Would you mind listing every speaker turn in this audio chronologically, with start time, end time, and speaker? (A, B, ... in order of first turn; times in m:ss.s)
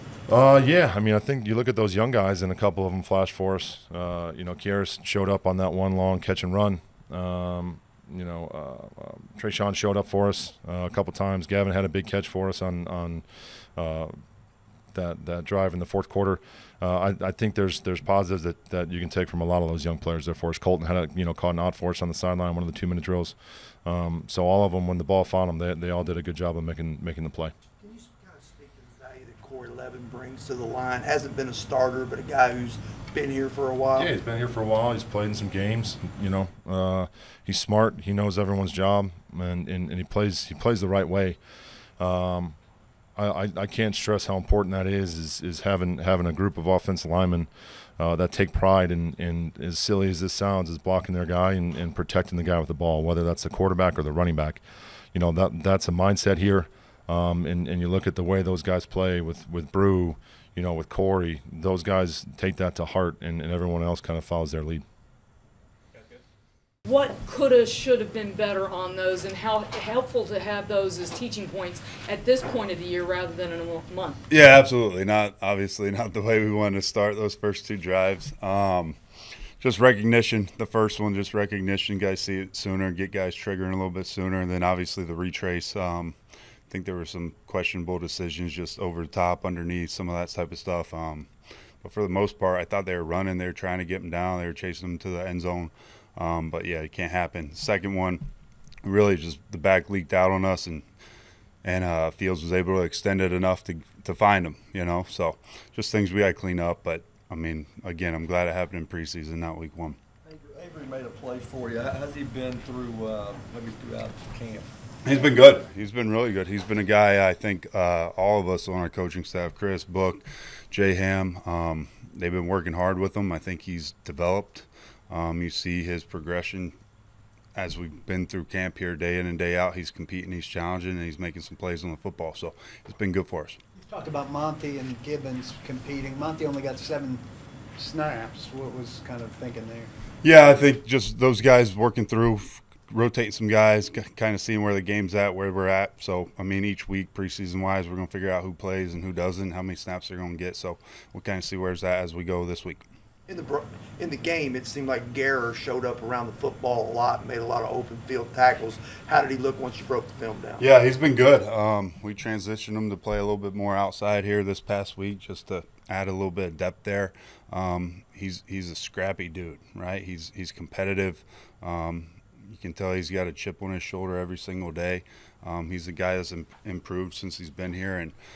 0:00.3-0:14.2 A
0:14.9-0:27.5 A
0:27.8-0:34.1 B
0:33.9-0:41.4 A
0:42.0-0:42.6 A
0:43.2-1:04.8 A
1:06.9-1:14.2 C
1:14.3-1:19.0 D
1:19.6-1:26.2 D
1:26.7-1:31.3 D
1:31.8-1:38.3 D
1:38.8-1:40.8 D
1:41.6-1:50.0 D
1:50.2-1:54.7 E
1:55.0-2:06.8 D
2:07.6-2:13.6 D
2:13.7-2:17.3 F
2:17.8-2:19.9 F
2:20.2-2:32.9 D
2:33.3-2:40.6 B
2:40.6-2:58.2 D